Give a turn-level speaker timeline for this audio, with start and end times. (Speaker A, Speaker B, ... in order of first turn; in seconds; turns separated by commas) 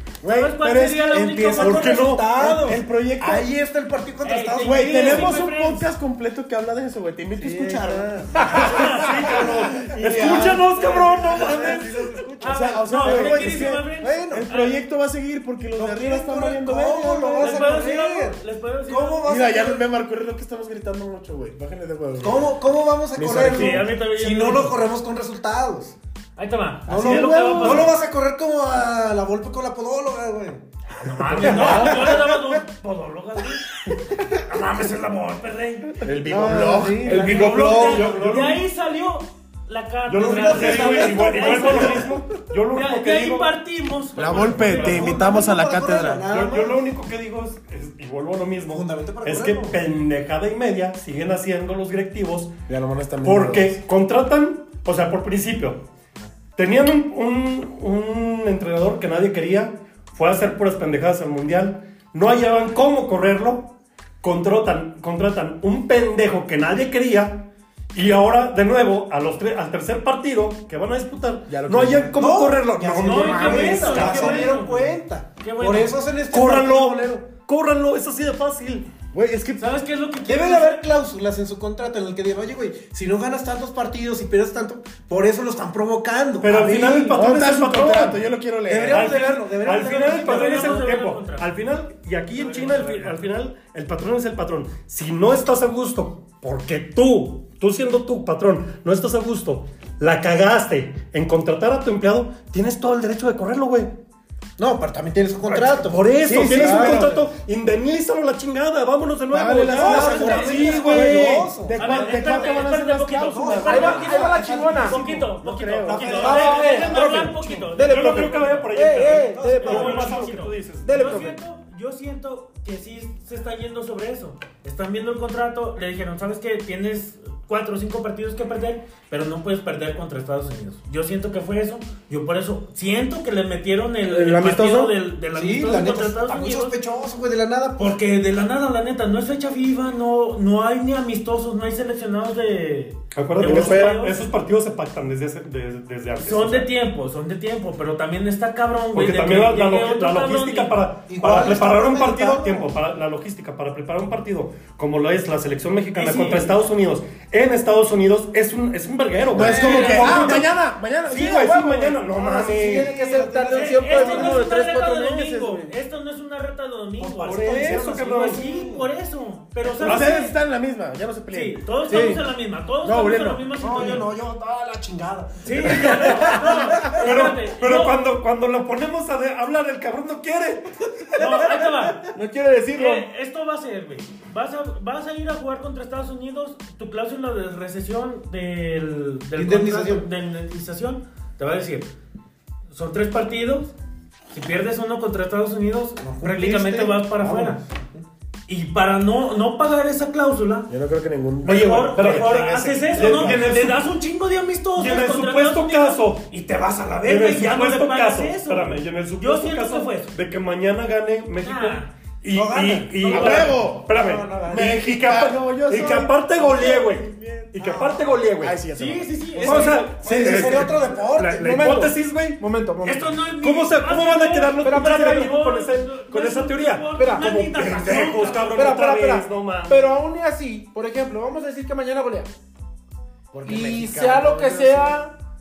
Speaker A: 0.2-3.5, Speaker B: 0.3-2.0, Speaker C: 1.2-5.4, Speaker D: 1.6-2.3, Speaker B: 4.2-5.9, Speaker A: 4.6-10.6, Speaker C: 7.4-14.5, Speaker D: 8.5-12.1, Speaker B: 8.6-9.5, Speaker B: 12.4-14.8, Speaker A: 12.4-17.7, Speaker C: 15.8-19.9, Speaker B: 17.4-19.2, Speaker A: 19.2-22.5, Speaker C: 22.2-26.0, Speaker A: 23.1-23.9, Speaker B: 23.5-24.8, Speaker B: 26.4-27.9, Speaker C: 26.9-30.6, Speaker A: 26.9-27.9, Speaker B: 30.9-33.6, Speaker C: 31.2-32.6, Speaker B: 34.3-36.1, Speaker A: 36.0-37.5, Speaker C: 36.3-38.0, Speaker E: 37.0-38.1, Speaker B: 37.1-42.1, Speaker D: 37.3-38.6, Speaker D: 40.1-43.5, Speaker C: 40.1-42.1, Speaker B: 42.7-44.9, Speaker A: 44.1-46.3, Speaker D: 44.2-45.2, Speaker C: 44.7-46.8, Speaker D: 46.3-52.5, Speaker C: 48.7-49.8, Speaker A: 52.7-53.8, Speaker D: 53.2-55.8, Speaker D: 56.6-74.5, Speaker A: 71.5-72.2, Speaker C: 72.1-77.1, Speaker B: 73.0-76.0, Speaker D: 76.3-78.9, Speaker A: 79.1-79.8, Speaker B: 79.6-80.9, Speaker C: 80.3-87.2, Speaker D: 86.4-88.2, Speaker A: 87.1-89.2, Speaker C: 88.7-91.0, Speaker D: 88.8-103.9, Speaker B: 89.7-91.5, Speaker B: 92.3-93.2, Speaker C: 104.6-107.3, Speaker D: 105.5-112.5, Speaker A: 106.2-107.1, Speaker A: 109.3-114.1, Speaker C: 109.7-112.6, Speaker E: 109.9-111.3, Speaker B: 111.7-136.8, Speaker C: 113.2-115.1, Speaker E: 113.7-115.0, Speaker D: 115.2-121.3, Speaker A: 115.3-116.3, Speaker C: 115.8-117.0, Speaker E: 116.2-120.3, Speaker C: 119.0-120.2, Speaker E: 120.8-121.4, Speaker E: 134.0-134.9, Speaker C: 135.3-138.0, Speaker B: 137.8-144.2, Speaker D: 143.1-146.7, Speaker E: 143.4-144.0, Speaker B: 146.2-150.8, Speaker D: 148.9-160.5, Speaker C: 151.1-152.7, Speaker B: 155.9-156.6, Speaker A: 159.3-161.6, Speaker B: 159.4-160.4, Speaker C: 159.4-159.9, Speaker E: 159.5-160.5, Speaker D: 161.1-162.9, Speaker E: 161.1-165.7, Speaker C: 162.2-164.5, Speaker B: 163.5-170.3, Speaker D: 167.0-168.4, Speaker C: 167.3-168.9, Speaker A: 169.8-171.7, Speaker D: 169.8-170.3, Speaker B: 171.3-174.1, Speaker C: 171.9-172.2, Speaker E: 171.9-172.2, Speaker A: 172.8-173.5, Speaker C: 173.6-177.4, Speaker B: 175.4-178.0, Speaker D: 175.7-180.8, Speaker C: 181.2-181.9, Speaker B: 181.2-182.1, Speaker E: 182.1-183.1, Speaker B: 182.7-191.9, Speaker C: 189.3-190.1, Speaker B: 192.7-193.7, Speaker B: 194.3-197.6, Speaker C: 196.0-198.1, Speaker B: 198.5-200.7, Speaker A: 200.7-202.4, Speaker B: 201.4-210.1, Speaker D: 201.4-203.9, Speaker A: 203.0-203.7, Speaker D: 204.8-206.3, Speaker D: 207.0-218.6, Speaker B: 211.4-211.9, Speaker C: 212.3-214.6, Speaker A: 213.1-213.9, Speaker B: 213.1-213.5, Speaker A: 214.4-217.7, Speaker C: 217.6-218.2, Speaker A: 218.3-219.5, Speaker B: 218.7-220.6, Speaker C: 219.3-221.9, Speaker D: 219.4-222.4, Speaker A: 220.0-220.7, Speaker E: 220.3-220.7, Speaker E: 221.3-223.2, Speaker B: 222.8-228.7, Speaker D: 223.4-230.0, Speaker E: 224.6-225.3, Speaker E: 227.0-227.3, Speaker A: 227.6-228.1, Speaker E: 228.3-232.3, Speaker A: 233.3-235.0, Speaker E: 233.4-235.1